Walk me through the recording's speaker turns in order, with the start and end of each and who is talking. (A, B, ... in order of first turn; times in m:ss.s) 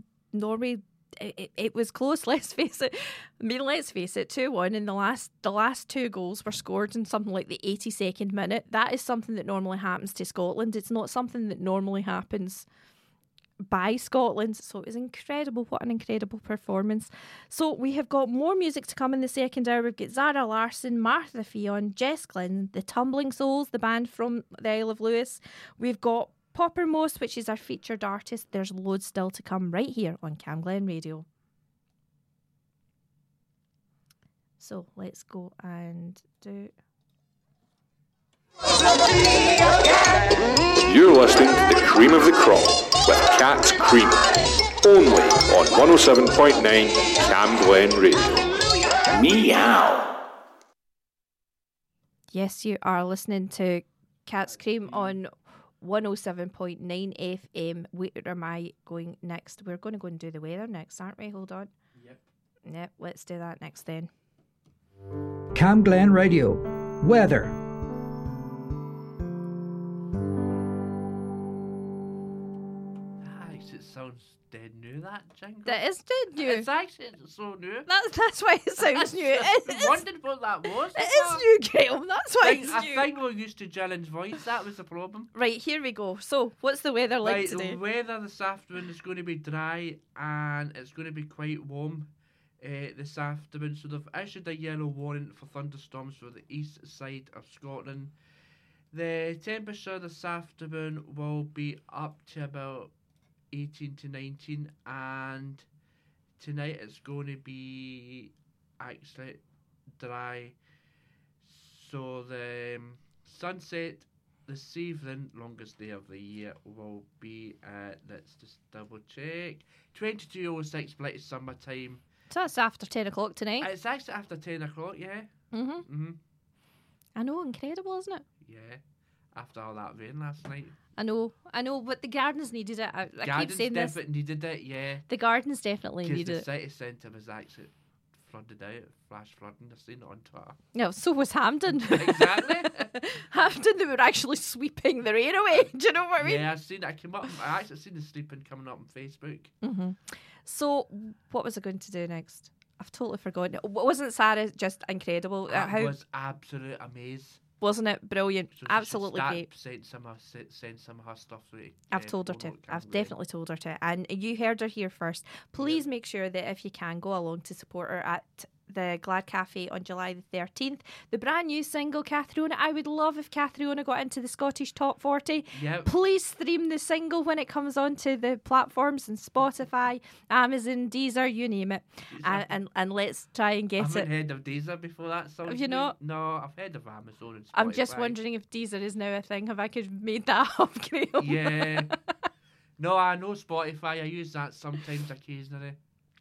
0:00.3-0:12.6 A
0:13.7-0:31.2 A
0:34.6-0:36.7 A
0:40.8-0:48.5 B
0:49.0-0:50.1 B
0:52.3-1:01.7 A
0:54.4-0:55.2 C
1:01.9-1:02.2 C
1:02.6-1:04.1 A
1:05.5-1:07.6 D
1:13.2-1:15.8 C
1:15.6-1:16.7 A
1:16.4-1:17.9 C
1:17.9-1:20.0 A
1:18.8-1:21.4 C
1:20.9-1:23.1 A
1:22.4-1:25.3 C
1:25.3-1:27.8 A
1:27.2-1:38.1 C
1:38.9-1:42.9 C
1:43.5-1:45.6 C
1:46.4-1:49.4 C
1:50.0-1:50.6 C
1:51.4-2:02.0 C
2:02.3-2:03.7 A
2:03.6-2:05.3 C
2:05.5-2:05.8 A
2:05.9-2:06.2 C
2:07.2-2:08.2 A
2:08.4-2:08.8 C
2:09.3-2:10.8 C
2:11.0-2:14.0 A
2:13.2-2:15.0 C
2:15.1-2:16.4 A
2:16.0-2:20.6 C
2:20.7-2:26.4 A
2:21.8-2:22.8 C
2:26.2-2:29.5 C
2:29.6-2:36.0 A
2:35.5-2:37.4 C
2:37.6-2:39.5 A
2:38.5-2:43.1 C
2:41.9-3:04.1 A
2:45.6-2:45.8 C
2:55.5-2:55.9 C
3:02.1-3:02.5 C
3:03.8-3:08.2 C
3:05.4-3:05.9 A
3:07.5-3:11.8 A
3:11.2-3:11.9 C
3:12.8-3:15.8 C